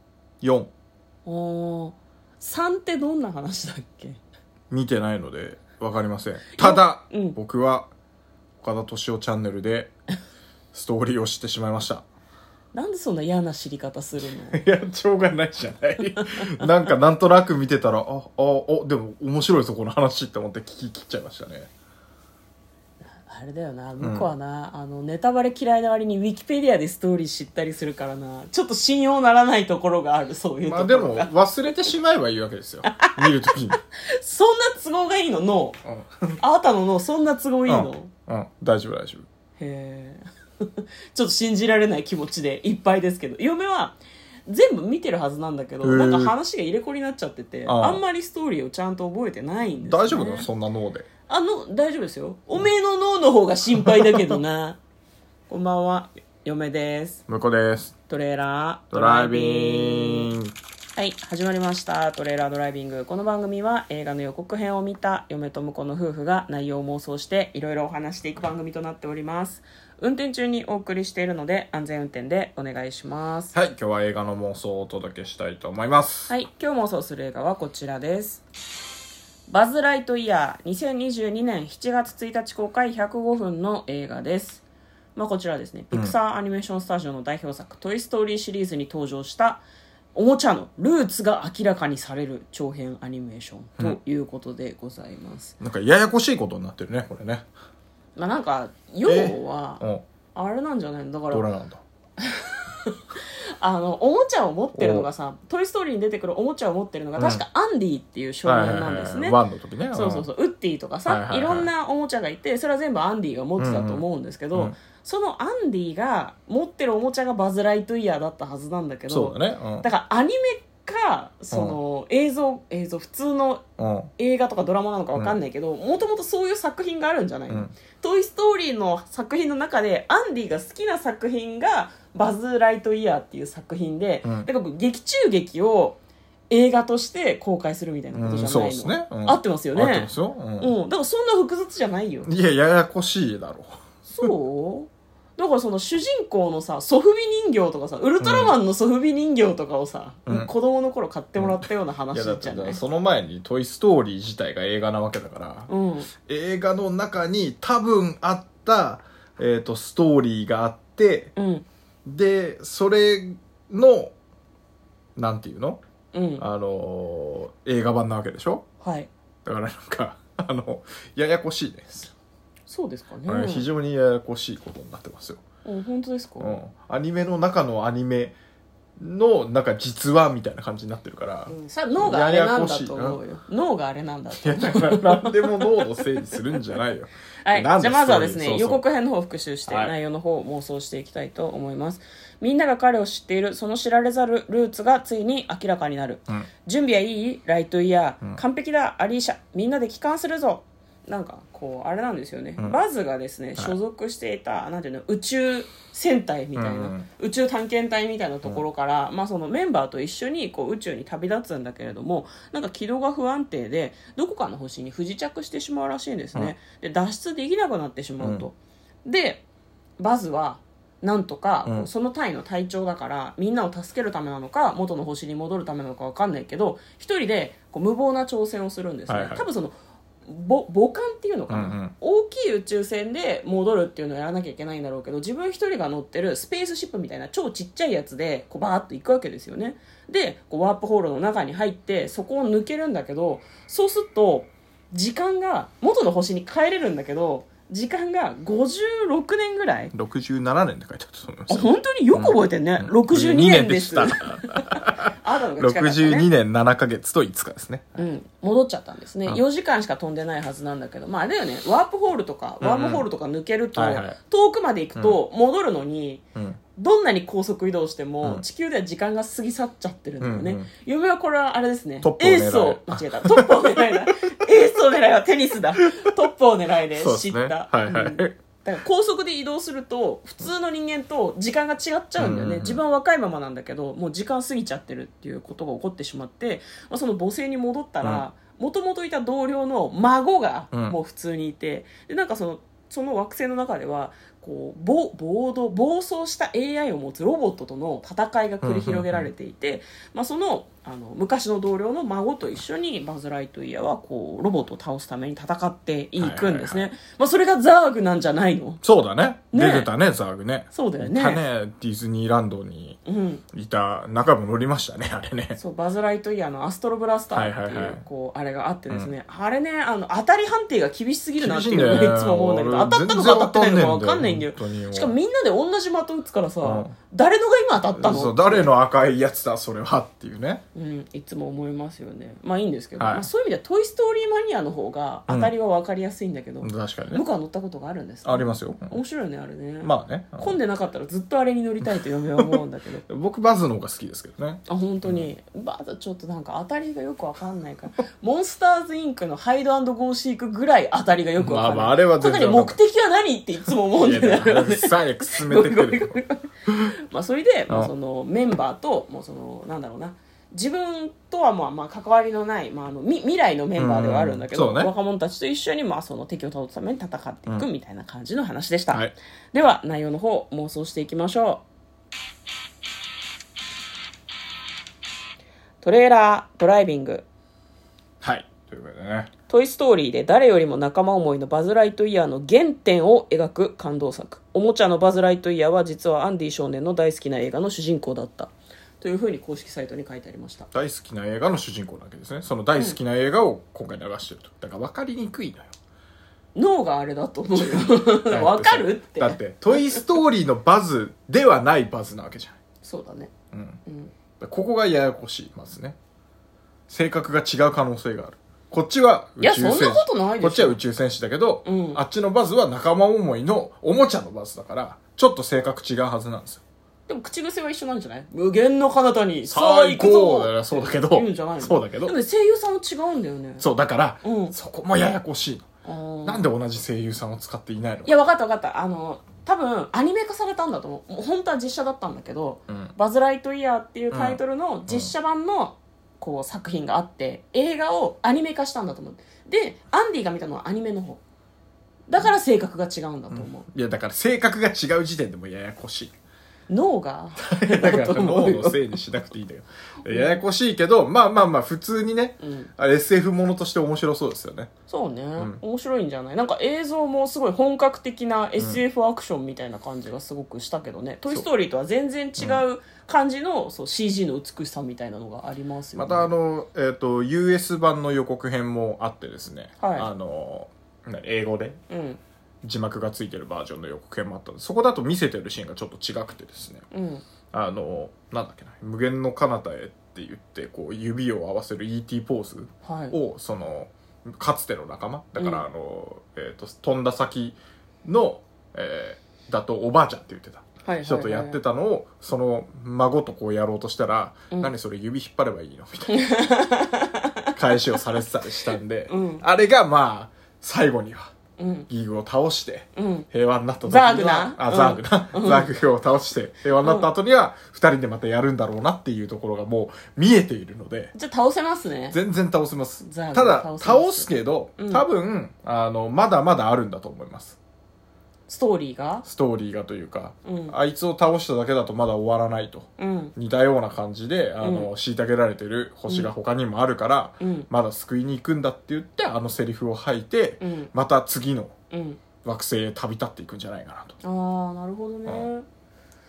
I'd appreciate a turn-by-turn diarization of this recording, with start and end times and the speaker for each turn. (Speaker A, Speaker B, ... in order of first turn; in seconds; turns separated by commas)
Speaker A: 0.4-0.7, Speaker B: 1.2-4.2, Speaker A: 4.7-7.9, Speaker B: 6.6-7.4, Speaker A: 8.6-9.9, Speaker A: 10.7-12.1, Speaker B: 12.7-14.6, Speaker A: 14.5-21.7, Speaker B: 23.2-31.3, Speaker A: 24.0-24.3, Speaker A: 30.6-33.8, Speaker B: 32.8-35.8, Speaker A: 35.8-36.4, Speaker B: 36.4-38.1, Speaker A: 37.7-39.3, Speaker B: 39.6-50.5, Speaker A: 45.8-46.3, Speaker A: 47.7-48.0, Speaker A: 49.8-51.1, Speaker B: 51.3-54.8, Speaker B: 55.5-57.2, Speaker A: 57.3-58.0, Speaker B: 58.1-60.3, Speaker A: 58.9-60.5, Speaker B: 61.0-73.5, Speaker A: 73.5-76.3, Speaker B: 76.3-78.4, Speaker B: 79.5-84.6, Speaker B: 85.1-89.6, Speaker B: 90.1-95.5, Speaker A: 95.6-97.5, Speaker B: 98.2-101.5, Speaker A: 99.0-100.0, Speaker A: 101.3-101.8, Speaker B: 102.2-109.4, Speaker A: 104.7-105.1, Speaker A: 107.2-107.4, Speaker A: 108.4-110.3, Speaker B: 109.9-123.6, Speaker A: 111.0-111.7, Speaker A: 113.6-114.8, Speaker A: 119.1-119.9, Speaker A: 121.5-121.8, Speaker A: 123.8-124.1, Speaker B: 124.2-142.3, Speaker A: 127.5-127.7, Speaker A: 134.2-134.5, Speaker A: 138.1-140.8, Speaker A: 142.2-144.3, Speaker B: 144.1-152.8, Speaker A: 148.2-148.6, Speaker A: 150.2-150.5, Speaker A: 151.4-161.3, Speaker B: 155.7-156.1, Speaker B: 161.4-161.7, Speaker A: 162.1-164.1, Speaker A: 165.2-165.8, Speaker B: 166.1-166.4, Speaker A: 166.4-168.7, Speaker B: 168.8-169.1, Speaker A: 169.4-172.1, Speaker B: 172.7-173.7, Speaker A: 173.3-175.4, Speaker B: 175.7-176.6, Speaker A: 176.4-178.4, Speaker A: 179.0-183.2, Speaker B: 181.5-186.4, Speaker A: 184.4-188.8, Speaker B: 187.4-219.4, Speaker A: 189.7-189.9, Speaker A: 206.6-207.1, Speaker A: 218.2-218.5, Speaker B: 220.0-249.9, Speaker A: 229.1-229.5, Speaker A: 231.5-231.9, Speaker A: 249.9-258.0, Speaker B: 251.5-256.3, Speaker B: 258.0-266.2, Speaker A: 262.6-263.1, Speaker A: 263.8-264.2, Speaker A: 266.3-266.6, Speaker B: 266.8-308.8, Speaker A: 270.2-270.7, Speaker A: 272.0-274.0, Speaker A: 276.9-278.4, Speaker A: 282.2-282.8, Speaker A: 290.7-291.0, Speaker A: 298.6-299.3, Speaker A: 306.2-306.9, Speaker A: 308.8-313.0, Speaker B: 309.5-309.9, Speaker B: 310.7-311.4, Speaker B: 313.1-313.4, Speaker A: 313.5-315.6, Speaker B: 315.6-328.7, Speaker A: 317.3-318.0, Speaker A: 321.4-325.1, Speaker A: 326.6-326.9, Speaker A: 327.9-330.6, Speaker B: 330.8-343.0, Speaker A: 333.0-333.3, Speaker A: 335.3-335.5, Speaker A: 336.6-337.2, Speaker A: 338.2-339.0, Speaker A: 339.8-340.6, Speaker A: 342.4-345.3, Speaker B: 344.7-356.5, Speaker A: 351.4-352.8, Speaker A: 353.9-356.1, Speaker A: 356.7-356.9, Speaker B: 357.1-371.6, Speaker A: 363.8-364.9, Speaker B: 375.8-377.2, Speaker A: 378.2-379.3, Speaker B: 379.5-390.7, Speaker A: 390.7-395.7, Speaker B: 396.5-400.1, Speaker A: 397.5-402.6, Speaker B: 402.8-403.3, Speaker A: 403.5-403.8, Speaker B: 403.9-404.1, Speaker A: 404.4-406.0, Speaker A: 406.9-416.6, Speaker B: 409.4-410.8, Speaker B: 411.6-412.0, Speaker B: 417.1-423.6, Speaker A: 419.5-422.1, Speaker A: 423.6-425.7, Speaker B: 424.2-424.5, Speaker B: 425.8-426.5, Speaker A: 426.2-428.2, Speaker B: 428.0-441.2, Speaker A: 432.7-432.9, Speaker A: 434.1-435.1, Speaker B: 442.1-443.7, Speaker A: 443.3-446.1, Speaker B: 446.7-449.0, Speaker A: 447.4-454.7, Speaker B: 450.0-450.4, Speaker B: 452.4-452.7, Speaker B: 454.9-466.3, Speaker A: 455.4-455.6, Speaker A: 462.4-462.6, Speaker A: 465.9-471.8, Speaker B: 469.8-470.1, Speaker B: 471.9-472.2, Speaker A: 472.6-476.9, Speaker B: 476.9-477.2, Speaker A: 477.5-496.3, Speaker B: 482.8-483.1, Speaker B: 485.4-485.6, Speaker B: 490.8-491.6, Speaker B: 496.1-498.0, Speaker A: 497.5-501.3, Speaker B: 499.1-499.4, Speaker B: 501.6-501.9, Speaker A: 501.9-511.1, Speaker B: 502.9-503.3, Speaker B: 503.8-505.7, Speaker B: 506.8-507.1, Speaker B: 511.1-512.2, Speaker A: 512.1-517.6, Speaker B: 513.0-515.0, Speaker B: 518.5-519.2, Speaker A: 519.2-531.7, Speaker B: 520.5-520.7, Speaker B: 523.0-523.4, Speaker B: 524.6-524.9, Speaker B: 527.4-527.7, Speaker B: 530.6-530.9, Speaker B: 531.9-532.2, Speaker A: 532.4-534.1, Speaker B: 534.2-535.6